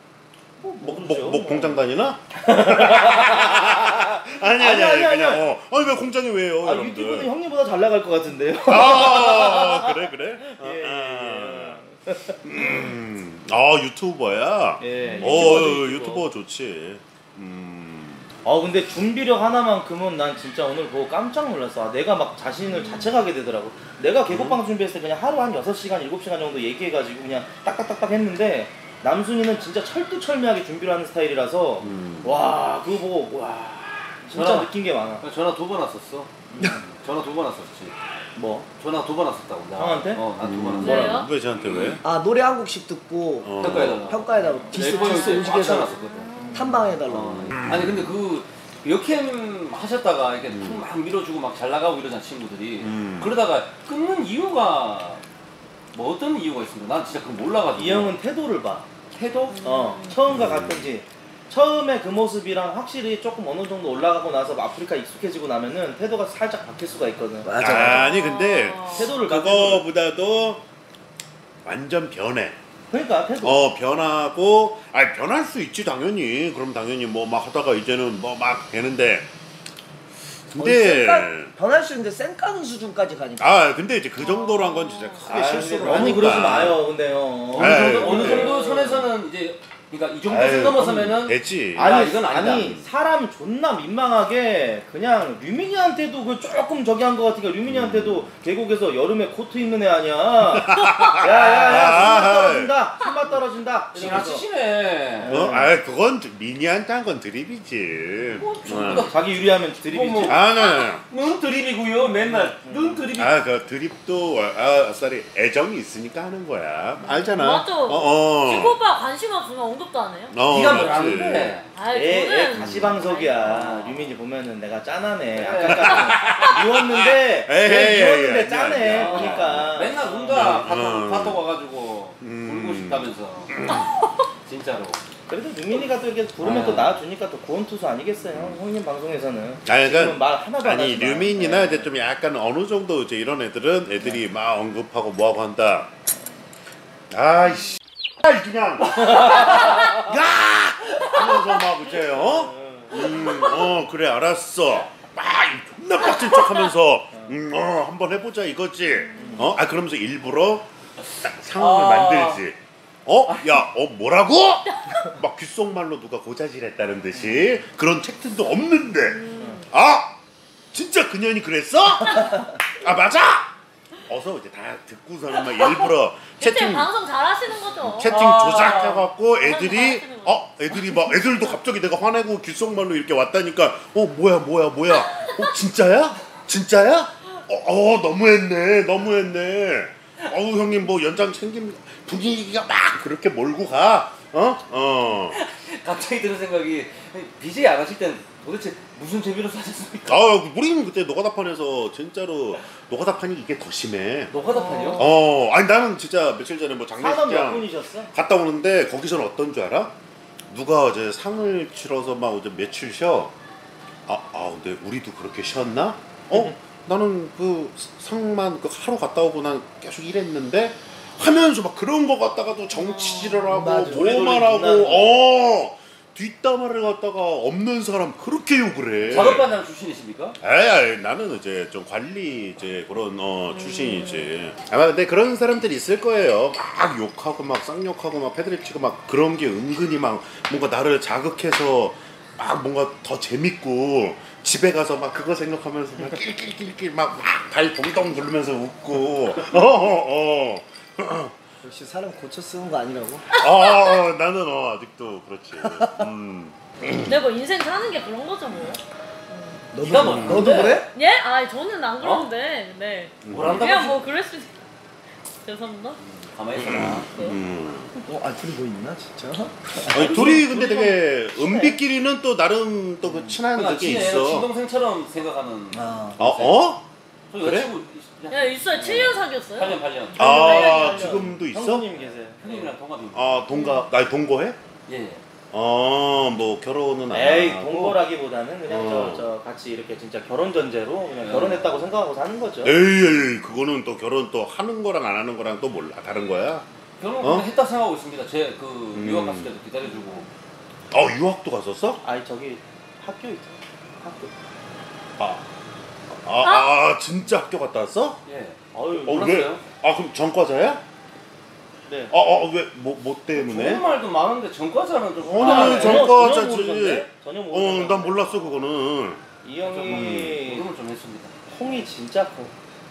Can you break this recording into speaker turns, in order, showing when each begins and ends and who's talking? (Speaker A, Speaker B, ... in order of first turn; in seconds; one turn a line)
Speaker A: 0.6-1.8
Speaker B: 0.8-7.3
Speaker A: 2.3-5.5
Speaker A: 6.6-12.9
Speaker B: 8.7-11.8
Speaker B: 12.4-18.3
Speaker A: 14.8-16.3
Speaker C: 15.0-15.7
Speaker A: 18.4-35.2
Speaker C: 22.8-23.1
Speaker B: 24.3-24.6
Speaker B: 31.8-32.3
Speaker D: 34.3-37.9
Speaker A: 36.5-36.8
Speaker A: 38.4-38.7
Speaker D: 38.8-42.0
Speaker A: 39.8-40.2
Speaker B: 40.4-42.0
Speaker C: 40.8-41.3
Speaker E: 42.0-46.0
Speaker B: 43.4-44.1
Speaker D: 43.6-46.3
Speaker A: 44.4-44.7
Speaker C: 44.8-46.8
Speaker E: 46.5-47.6
Speaker D: 47.0-55.2
Speaker B: 47.5-48.1
Speaker B: 50.5-50.9
Speaker B: 52.8-53.4
Speaker D: 55.9-58.1
Speaker A: 57.8-68.0
Speaker C: 59.5-60.1
Speaker B: 60.3-60.9
Speaker E: 67.4-68.2
Speaker B: 67.6-70.6
Speaker C: 68.0-69.1
Speaker A: 68.9-69.8
Speaker B: 71.6-72.6
Speaker A: 72.9-73.6
Speaker B: 73.4-79.3
Speaker B: 80.5-81.5
Speaker E: 80.6-83.6
Speaker B: 83.4-86.8
Speaker C: 84.2-85.3
Speaker A: 85.2-89.1
Speaker D: 85.9-86.2
Speaker D: 87.5-92.8
Speaker B: 87.5-88.6
Speaker B: 90.2-92.8
Speaker A: 91.8-104.5
Speaker B: 97.7-98.3
Speaker B: 100.5-102.7
Speaker D: 101.3-102.1
Speaker D: 103.9-105.4
Speaker A: 105.2-105.7
Speaker B: 105.3-109.1
Speaker D: 108.3-109.3
Speaker A: 108.9-110.4
Speaker D: 109.8-113.3
Speaker B: 110.2-111.0
Speaker C: 110.5-110.9
Speaker A: 112.3-113.0
Speaker B: 113.1-118.8
Speaker C: 117.0-120.3
Speaker B: 120.3-121.6
Speaker D: 120.4-121.7
Speaker C: 121.7-123.8
Speaker A: 121.8-130.6
Speaker B: 122.6-123.0
Speaker D: 125.3-126.1
Speaker B: 125.6-131.4
Speaker C: 126.2-126.5
Speaker D: 128.8-133.6
Speaker B: 132.2-133.9
Speaker C: 133.7-134.2
Speaker D: 134.4-135.0
Speaker A: 135.3-141.9
Speaker D: 136.4-136.9
Speaker B: 138.3-138.6
Speaker B: 139.7-145.9
Speaker B: 147.1-160.7
Speaker A: 152.1-153.2
Speaker C: 158.9-159.5
Speaker A: 159.2-159.5
Speaker B: 161.2-170.2
Speaker D: 161.5-162.4
Speaker D: 163.3-163.6
Speaker C: 164.7-165.0
Speaker A: 167.1-167.4
Speaker C: 169.1-169.7
Speaker B: 170.7-173.5
Speaker B: 174.1-176.9
Speaker C: 175.4-175.9
Speaker C: 176.4-178.2
Speaker B: 177.8-195.4
Speaker D: 178.0-179.1
Speaker C: 179.4-181.3
Speaker C: 185.1-185.4
Speaker D: 195.3-200.3
Speaker B: 200.1-204.3
Speaker D: 204.3-205.0
Speaker C: 204.4-205.1
Speaker B: 204.9-209.9
Speaker A: 207.0-208.1
Speaker B: 210.5-213.3
Speaker B: 214.1-229.5
Speaker C: 222.7-223.6
Speaker E: 223.5-224.3
Speaker A: 223.8-225.2
Speaker D: 229.0-230.4
Speaker B: 230.4-251.3
Speaker C: 233.5-234.3
Speaker E: 251.6-253.2
Speaker C: 253.3-253.9
Speaker B: 253.3-257.2
Speaker E: 255.6-256.1
Speaker C: 257.0-259.6
Speaker E: 259.7-260.9
Speaker D: 259.8-260.9
Speaker B: 259.9-260.8
Speaker C: 260.5-264.5
Speaker D: 262.0-262.3
Speaker B: 263.2-263.8
Speaker D: 263.3-264.0
Speaker C: 265.4-266.0
Speaker D: 266.1-267.1
Speaker B: 266.6-267.9
Speaker C: 267.1-267.4
Speaker E: 268.1-270.3
Speaker A: 269.9-271.8
Speaker B: 269.9-274.5
Speaker A: 273.0-273.4
Speaker D: 273.5-276.7
Speaker E: 275.7-276.2
Speaker B: 276.2-276.8
Speaker D: 277.3-280.2
Speaker B: 277.4-277.7
Speaker C: 278.3-281.3
Speaker B: 280.1-281.9
Speaker A: 280.2-282.7
Speaker D: 282.4-283.4
Speaker B: 283.1-284.6
Speaker C: 283.5-283.9
Speaker D: 284.9-285.2
Speaker B: 285.5-288.0
Speaker A: 287.1-292.8
Speaker B: 288.7-289.2
Speaker D: 291.2-291.6
Speaker B: 292.6-296.6
Speaker D: 297.0-300.2
Speaker B: 297.2-297.5
Speaker B: 298.9-299.5
Speaker B: 300.9-302.0
Speaker A: 302.0-304.3
Speaker B: 305.2-305.4
Speaker B: 306.1-308.2
Speaker C: 306.4-306.7
Speaker D: 308.2-309.4
Speaker A: 308.7-309.6
Speaker B: 308.9-310.8
Speaker A: 311.9-312.1
Speaker B: 312.1-313.8
Speaker D: 313.3-316.1
Speaker B: 315.2-319.2
Speaker A: 315.2-318.6
Speaker A: 319.4-320.6
Speaker D: 319.6-321.3
Speaker B: 319.9-320.4
Speaker A: 321.5-322.5